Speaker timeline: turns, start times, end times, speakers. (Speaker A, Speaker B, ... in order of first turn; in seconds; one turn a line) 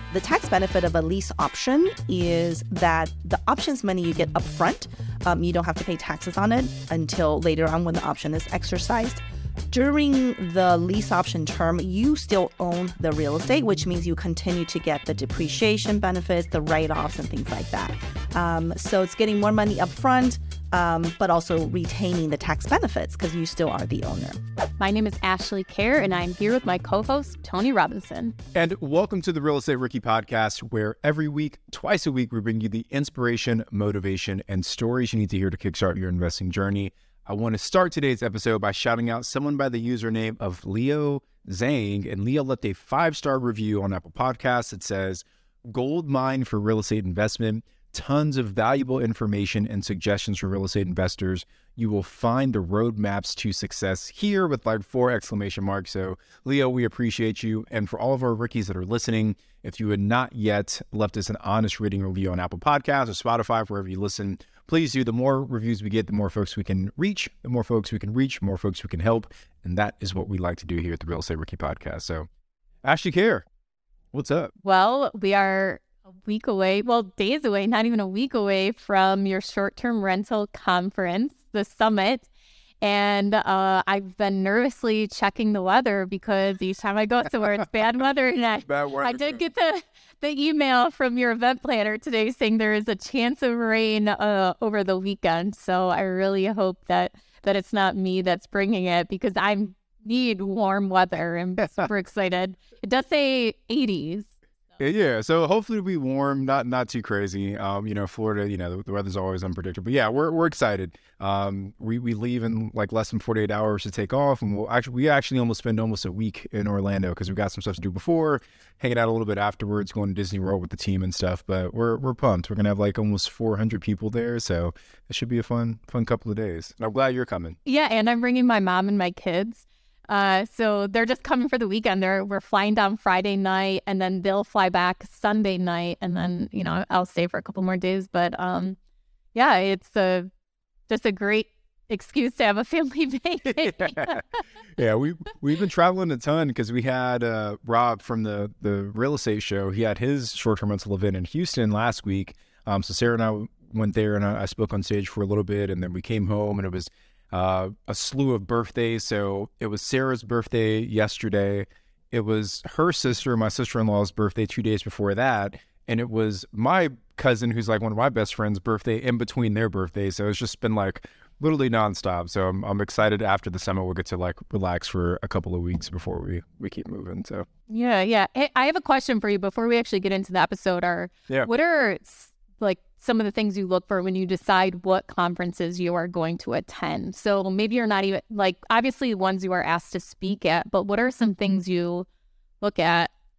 Speaker A: 0.1-24.4
Speaker B: 24.8-28.4
Speaker C: 28.5-72.3
Speaker C: 72.8-73.5
Speaker C: 74.1-74.5
Speaker B: 74.6-82.3
Speaker B: 82.8-104.3
Speaker C: 88.6-89.4
Speaker C: 101.6-101.9
Speaker C: 104.8-127.6
Speaker B: 127.6-138.8
Speaker B: 139.3-140.3
Speaker B: 140.9-144.4
Speaker C: 143.5-144.2
Speaker C: 144.7-177.4
Speaker B: 177.7-192.1
Speaker B: 192.6-193.1